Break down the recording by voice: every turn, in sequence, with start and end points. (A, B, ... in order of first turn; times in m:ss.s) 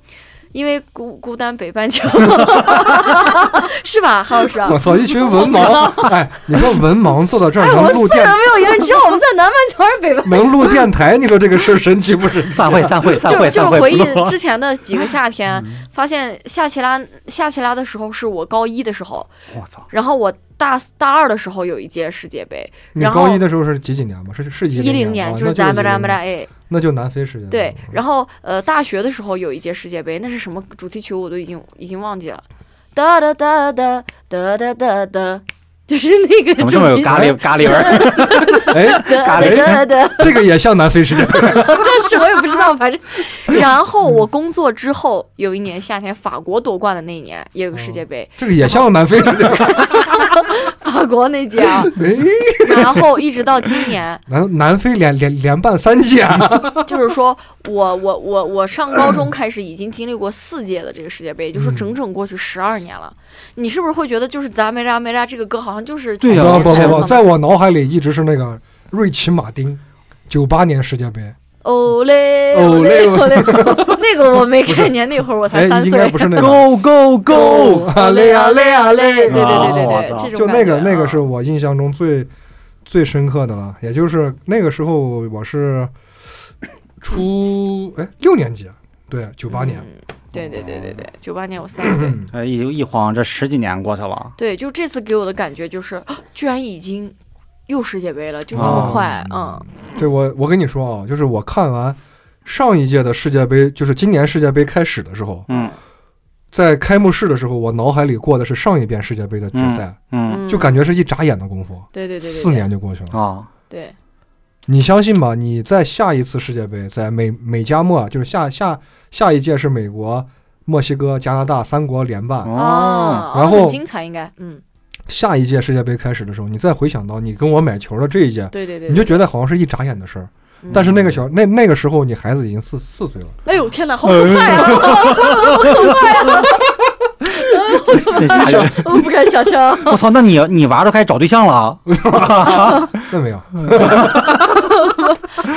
0:00.5-0:06.1 A
0:04.6-0:08.4 B
0:07.5-0:10.8 A
0:10.2-0:13.1 B
0:12.5-0:14.4 C
0:13.2-0:19.3 A
0:19.5-0:19.8 C
0:19.9-0:23.4 A
0:22.9-0:28.0 B
0:24.7-0:26.5 A
0:27.5-0:32.4 A
0:32.9-0:40.4 A
0:36.6-0:39.8 C
0:37.1-0:42.1 B
0:41.3-0:52.0 A
0:47.7-0:50.3 B
0:51.9-0:53.1 B
0:52.6-0:54.2 A
0:54.3-0:56.9 B
0:56.8-1:07.3 A
1:01.5-1:01.9 B
1:06.2-1:07.1 C
1:06.3-1:11.4 B
1:11.6-1:16.6 A
1:12.5-1:14.0 B
1:14.6-1:15.0 B
1:15.5-1:16.7 B
1:16.4-1:17.9 C
1:17.3-1:22.3 B
1:17.3-1:21.2 A
1:19.3-1:20.3 C
1:22.8-1:25.9 B
1:27.0-1:29.9 B
1:29.5-1:32.2 A
1:31.8-1:32.3 B
1:32.3-1:34.3 C
1:34.4-1:37.1 A
1:37.7-1:39.7 A
1:38.5-1:39.0 C
1:38.6-1:45.5 B
1:45.5-1:45.7 C
1:45.5-1:45.7 A
1:46.5-1:53.2 B
1:49.5-1:50.4 C
1:50.3-1:50.8 A
1:51.9-1:52.7 A
1:53.1-1:53.5 C
1:53.7-1:53.9 A
1:54.7-2:02.5 B
2:02.4-2:03.3 C
2:02.5-2:04.6 A
2:03.2-2:03.8 B
2:05.1-2:13.4 B
2:08.5-2:09.2 A
2:10.7-2:11.1 C
2:13.4-2:20.0 A
2:14.0-2:15.9 C
2:17.9-2:18.9 C
2:18.3-2:19.0 B
2:19.8-2:22.9 C
2:21.9-2:24.6 B
2:23.7-2:24.2 C
2:23.8-2:25.2 A